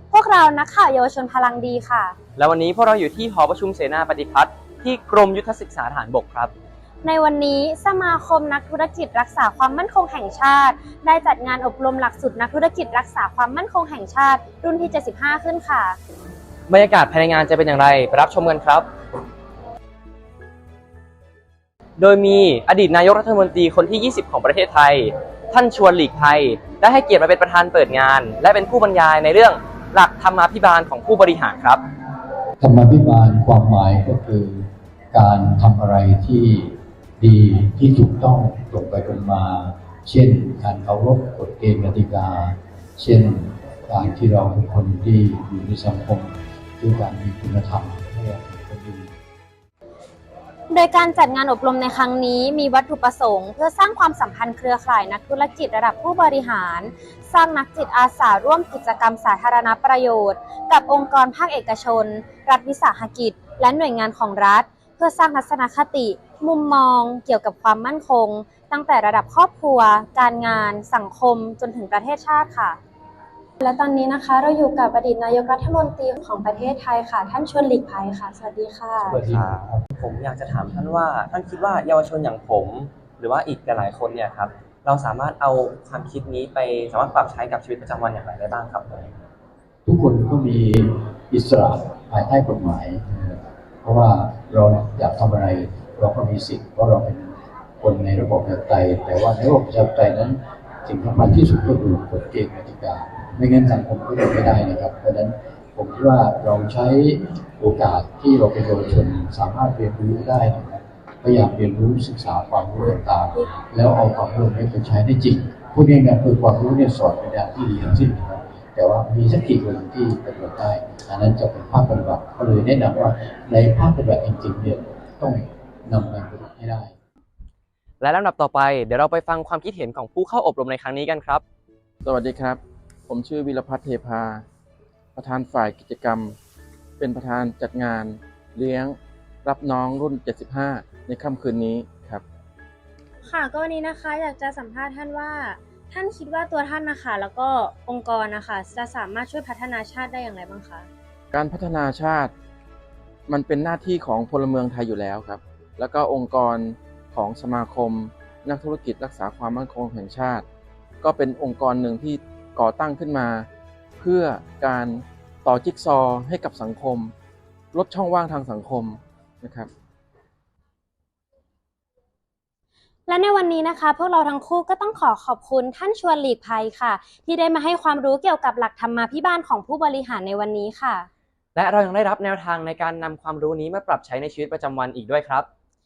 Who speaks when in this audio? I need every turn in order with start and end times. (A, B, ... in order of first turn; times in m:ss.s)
0:00.1-0:02.2 A
0:02.4-0:06.5 B
0:07.0-0:16.0 A
0:16.7-0:18.9 B
0:22.0-0:31.8 B
0:32.6-0:49.1 C
0:50.7-1:12.8 A
1:13.6-1:19.2 A
1:19.0-1:19.8 C
1:19.3-1:29.1 B
1:29.8-2:06.9 C
2:08.0-2:11.4 B
2:12.0-2:14.4 D
2:15.1-2:16.4 D
2:17.0-2:22.2 D
2:23.2-2:30.9 A
2:31.3-2:32.3 D
2:33.3-2:40.4 D
2:41.0-2:43.5 D
2:44.0-2:47.1 D
2:47.7-2:49.7 D
2:53.1-3:01.1 A
3:01.5-3:05.5 B